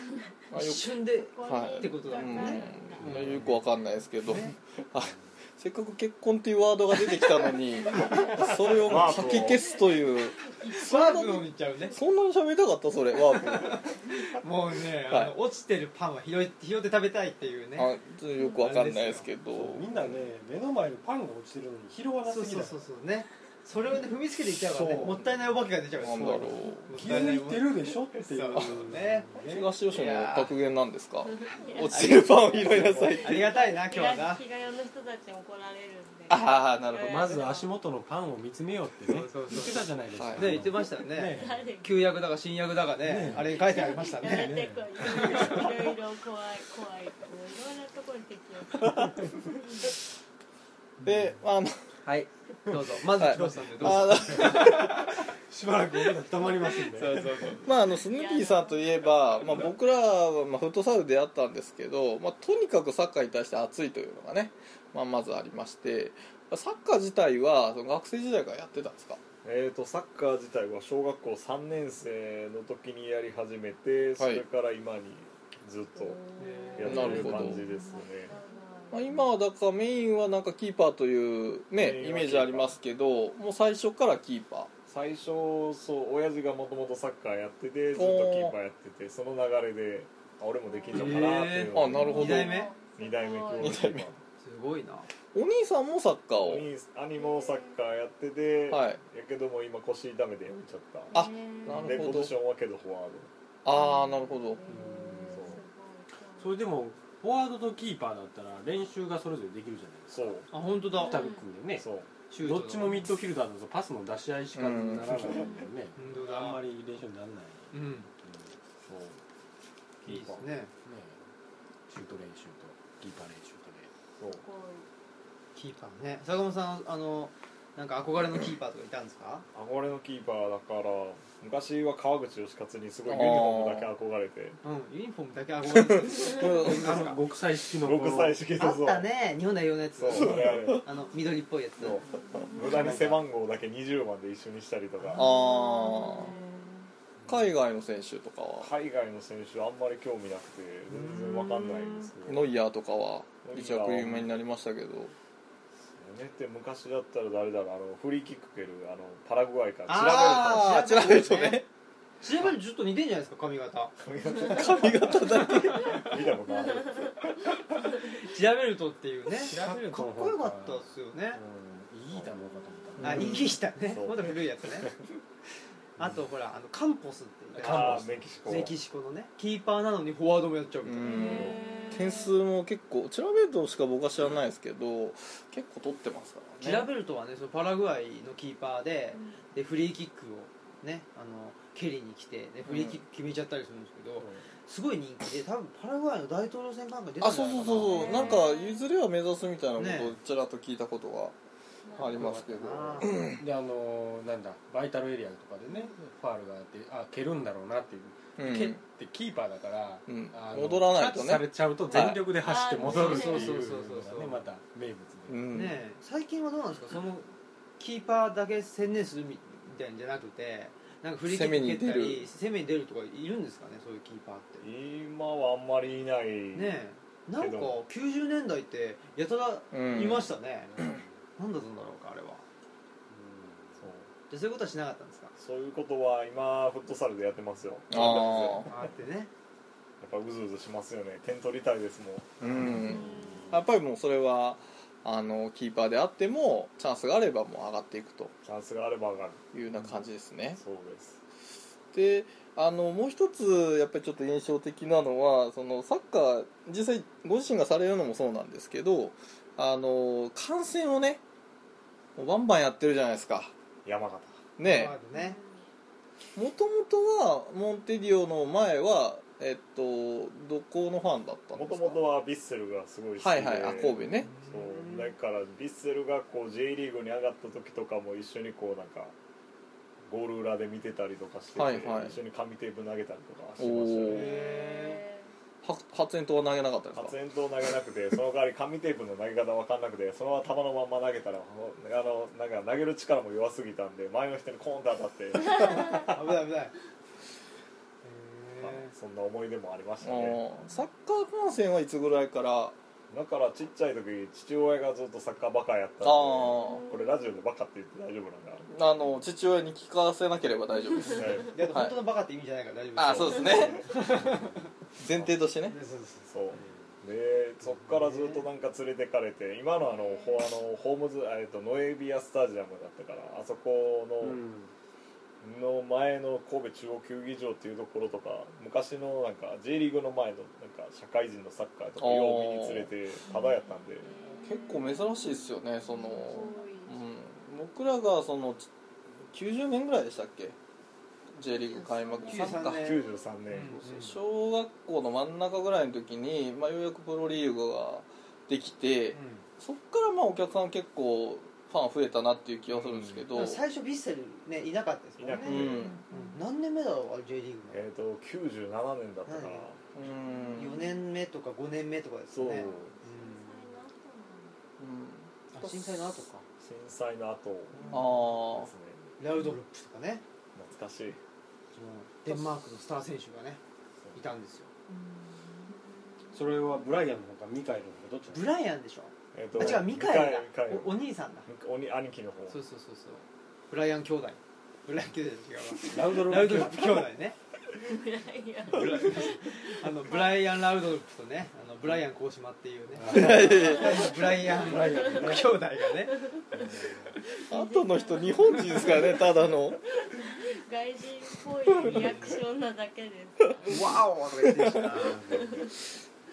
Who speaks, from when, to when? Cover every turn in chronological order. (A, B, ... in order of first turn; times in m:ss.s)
0:00.5-0:13.8 A
0:00.5-0:03.6 B
0:01.3-0:03.2 C
0:04.2-0:04.5 B
0:08.0-0:08.3 C
0:08.2-0:09.7 D
0:09.4-0:10.7 C
0:10.7-0:12.0 B
0:13.3-0:17.9 B
0:15.1-0:15.3 A
0:17.8-0:20.0 A
0:18.5-0:19.3 B
0:19.5-0:22.8 E
0:22.2-0:29.4 B
0:24.7-0:25.2 E
0:26.0-0:26.9 A
0:26.9-0:29.7 E
0:29.4-0:33.5 A
0:29.9-0:30.5 B
0:31.3-0:37.7 C
0:31.9-0:34.4 B
0:36.3-0:37.3 A
0:37.0-0:41.6 E
0:39.1-0:45.7 B
0:40.1-0:40.5 A
0:41.3-0:42.0 C
0:43.0-0:45.6 E
0:43.4-0:49.9 C
0:51.0-0:51.8 A
0:52.1-0:55.2 B
0:52.1-0:52.7 E
0:53.2-0:54.9 A
0:53.3-0:57.6 E
0:56.6-0:57.7 B
0:57.6-1:09.2 A
0:57.9-0:59.5 C
1:09.4-1:16.2 D
1:14.2-1:14.4 A
1:16.0-1:19.3 C
1:16.4-1:17.5 B
1:16.8-1:18.3 D
1:16.8-1:17.6 A
1:18.9-1:24.7 A
1:21.8-1:22.7 D
1:24.9-1:34.2 D
1:27.9-1:28.5 A
1:30.7-1:31.2 C
1:30.9-1:32.7 B
1:31.7-1:32.6 A
1:31.7-1:33.9 C
1:33.6-1:34.1 A
1:34.4-1:35.1 B
1:35.3-1:36.7 A
1:36.4-1:41.1 D
1:37.2-1:37.8 C
1:38.7-1:39.0 A
1:41.1-1:42.1 C
1:41.1-1:42.3 A
1:41.6-1:43.3 D
1:43.6-1:44.6 A
1:43.7-1:46.5 C
1:44.7-1:45.6 E
1:45.3-1:45.6 D
1:46.4-1:50.4 E
1:50.1-1:50.5 D
1:50.5-1:51.2 B
1:50.9-1:51.9 E
1:51.0-1:51.4 C
1:51.8-1:52.1 D
1:52.3-1:53.0 B
1:52.4-1:58.5 E
1:54.5-1:55.4 A
1:55.3-1:55.7 C
1:56.0-1:56.6 B
1:57.7-1:58.1 B
1:58.8-1:59.2 D
2:00.0-2:00.4 D
2:00.0-2:00.7 B
2:00.8-2:01.2 E
2:01.9-2:03.9 E
2:04.2-2:04.9 C
2:05.6-2:09.4 B
2:09.5-2:14.6 D
2:13.0-2:13.9 A
2:14.6-2:17.2 B
2:15.7-2:16.9 A
2:16.4-2:18.4 E
2:17.8-2:19.1 D
2:18.6-2:22.0 B
2:20.0-2:20.9 D
2:21.8-2:25.3 D
2:22.0-2:22.9 C
2:22.7-2:23.2 E
2:25.1-2:26.3 A
2:25.2-2:26.8 C
2:27.3-2:28.7 A
2:28.6-2:32.5 D
2:30.9-2:31.6 B
2:32.2-2:35.1 A
2:33.4-2:34.3 D
2:35.9-2:40.7 D
2:39.9-2:41.6 B
2:39.9-2:41.7 A
2:42.2-2:43.9 B
2:44.0-2:48.1 D
2:44.4-2:46.0 A
2:45.9-2:47.2 C
2:48.1-2:51.4 B
2:49.4-2:53.6 E
2:52.5-2:52.9 C
2:53.0-2:53.4 A
2:53.0-2:54.9 B
2:53.0-2:55.1 D
2:56.0-3:01.6 B
2:57.6-2:58.2 E
2:57.6-2:58.8 D
3:00.8-3:06.9 A
3:01.0-3:02.4 C
3:06.6-3:18.4 B
3:09.1-3:09.4 C
3:12.7-3:13.0 A
3:17.2-3:21.3 A
3:17.8-3:18.8 C
3:19.8-3:20.1 B
3:21.8-3:22.2 C
3:22.0-3:23.4 A
3:22.0-3:23.2 B
3:23.4-3:35.5 E
3:28.4-3:28.8 A
3:30.1-3:32.3 A
3:32.3-3:33.6 C
3:32.8-3:34.4 B
3:35.3-3:35.8 A
3:35.5-3:44.6 B
3:41.2-3:42.3 A
3:44.6-3:46.8 D
3:46.5-3:50.8 B
3:47.4-3:47.8 D
3:49.7-3:50.3 A
3:50.8-3:51.0 E
3:51.4-3:52.4 B
3:53.1-3:53.8 E
3:53.8-3:54.1 D
3:54.3-3:55.3 B
3:55.4-3:58.8 D
3:57.9-3:58.7 A
3:58.0-3:59.3 B
4:00.0-4:03.1 D
4:02.4-4:08.3 A
4:02.7-4:03.6 C
4:03.1-4:03.5 E
4:08.4-4:09.4 D
4:09.5-4:10.6 A
4:10.6-4:11.2 D
4:11.9-4:21.2 A
4:22.2-4:23.5 A
4:23.8-4:24.4 D
4:24.6-4:24.9 A
4:24.6-4:25.4 B
4:25.1-4:25.6 C
4:26.4-4:32.0 A
4:31.5-4:39.1 D
4:33.2-4:34.3 A
4:34.2-4:35.1 B
4:40.0-4:44.3 D
4:41.5-4:42.2 A
4:43.6-4:44.3 A
4:44.1-4:45.0 B
4:44.3-4:45.3 C
4:45.6-4:47.1 A
4:46.9-4:56.2 D
4:55.6-4:56.7 B
4:58.0-4:58.9 B
4:58.6-5:00.4 D
5:00.0-5:02.7 A
5:03.1-5:08.7 D
5:06.0-5:06.8 A
5:06.6-5:07.2 C
5:08.7-5:12.0 A
5:11.1-5:11.6 D
5:11.4-5:14.7 B
5:13.0-5:13.9 A
5:13.0-5:13.8 D
5:14.2-5:14.5 E
5:15.0-5:15.8 A
5:15.6-5:16.3 B
5:16.3-5:24.4 D
5:16.6-5:16.9 E
5:17.7-5:18.4 B
5:19.8-5:20.4 C
5:24.2-5:24.7 E
5:25.4-5:34.1 D
5:32.0-5:32.9 A
5:34.0-5:37.0 C
5:34.4-5:38.7 A
5:39.3-5:40.5 A
5:41.4-5:42.8 A
5:41.8-5:42.6 C
5:42.3-5:44.2 B
5:42.6-5:44.2 D
5:44.0-5:53.6 A
5:49.1-5:49.4 B
5:52.7-5:53.2 D
5:53.3-5:57.9 B
5:55.2-5:56.0 D
5:55.4-5:56.0 A
5:57.7-5:59.8 D
5:59.3-5:59.6 B
5:59.9-6:00.8 A
6:00.2-6:00.9 C
6:00.5-6:03.6 B
6:02.3-6:02.9 D
6:02.5-6:04.6 C
6:04.8-6:05.3 A
6:05.5-6:06.4 B
6:06.6-6:09.0 D
6:07.7-6:08.0 B
6:07.9-6:08.7 A
6:09.2-6:10.2 B
6:10.5-6:11.2 D
6:11.7-6:13.6 B
6:14.1-6:14.7 B
6:16.3-6:18.5 E
6:18.3-6:21.5 B
6:19.3-6:22.6 D
6:22.5-6:27.4 B
6:25.8-6:27.0 E
6:27.8-6:30.4 C
6:28.7-6:36.2 B
6:32.9-6:33.8 E
6:33.1-6:34.1 A
6:33.4-6:35.5 C
6:34.4-6:35.5 E
6:36.0-6:36.5 C
6:36.5-6:37.2 E
6:37.2-6:43.8 C
6:37.5-6:39.8 A
6:41.8-6:42.4 B
6:43.6-6:45.4 B
6:44.4-6:44.8 A
6:45.0-6:45.7 C